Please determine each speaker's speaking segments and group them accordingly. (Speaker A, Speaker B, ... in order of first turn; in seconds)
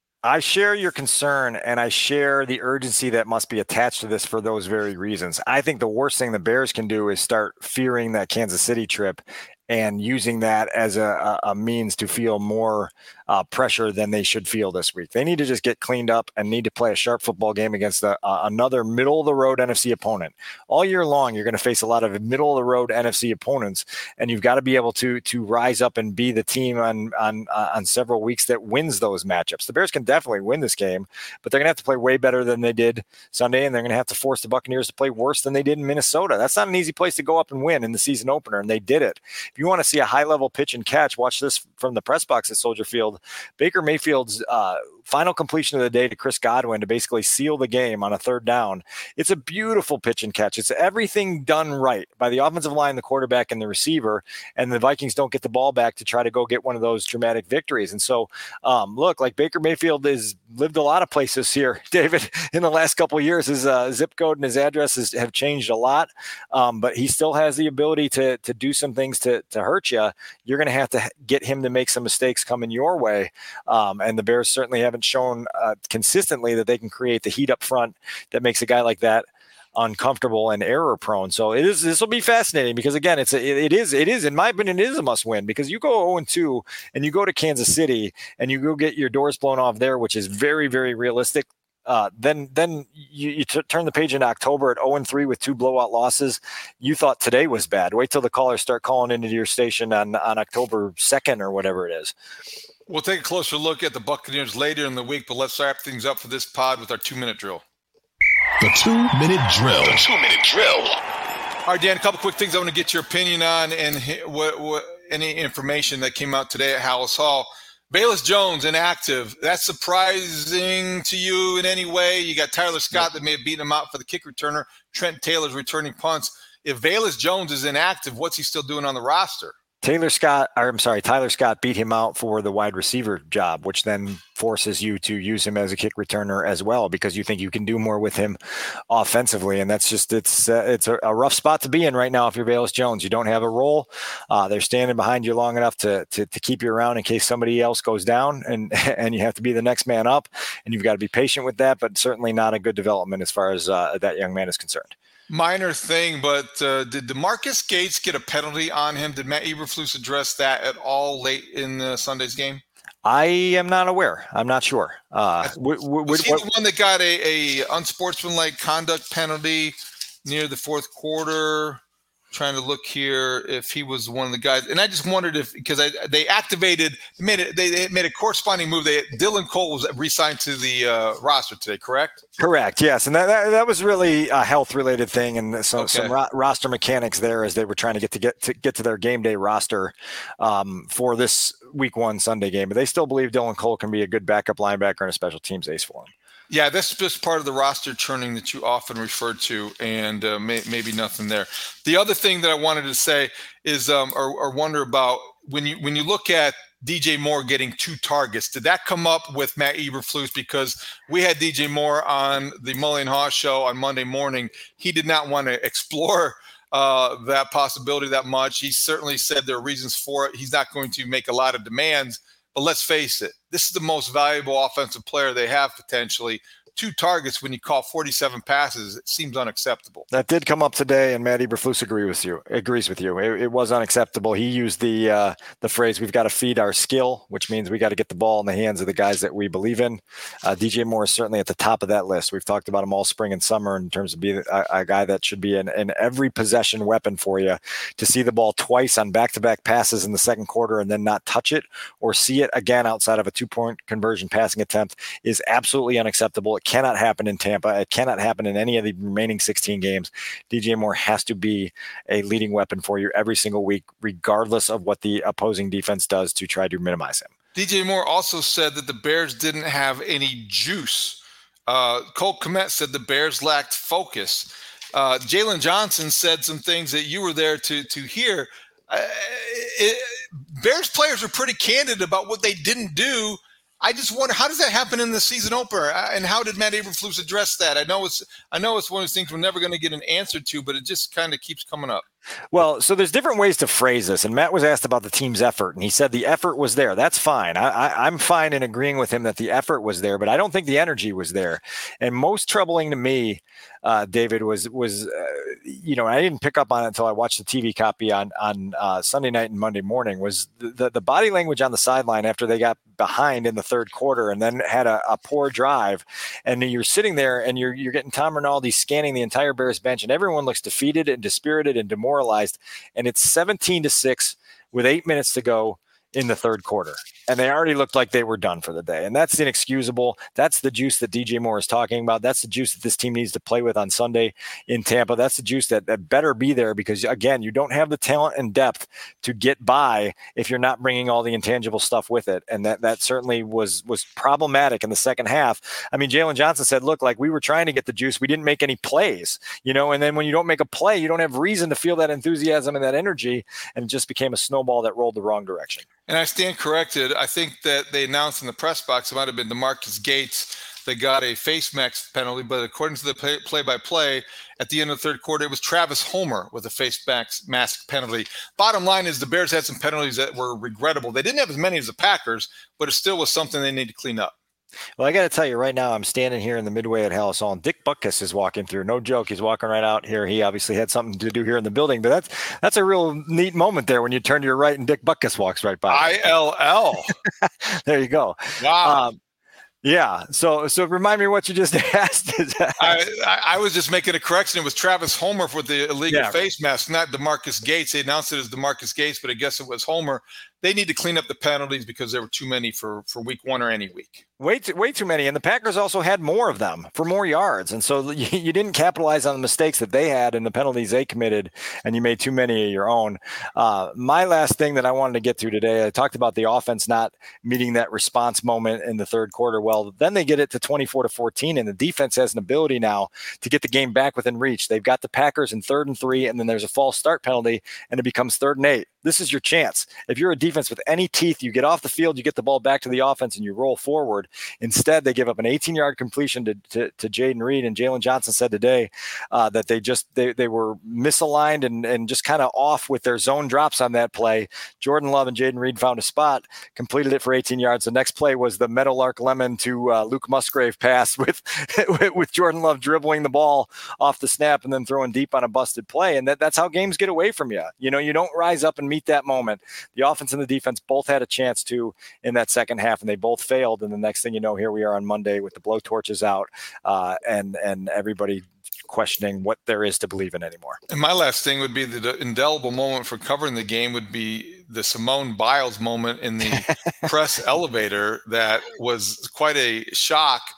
Speaker A: 0.2-102.1, 129.8-138.4, 138.9-154.9, 163.0-166.5, 182.4-196.1, 230.1-267.3, 292.5-355.9, 375.0-386.3, 387.4-389.2, 389.8-393.0, 396.1-396.4, 404.4-470.8
Speaker B: 102.9-107.6, 111.7-129.5, 155.3-162.6, 166.1-171.8, 172.3-182.2, 185.8-186.1, 196.5-230.1, 267.6-292.0, 356.1-374.3, 385.9-387.1, 388.6-389.1, 392.8-404.2, 470.9-480.4
Speaker C: 108.6-111.0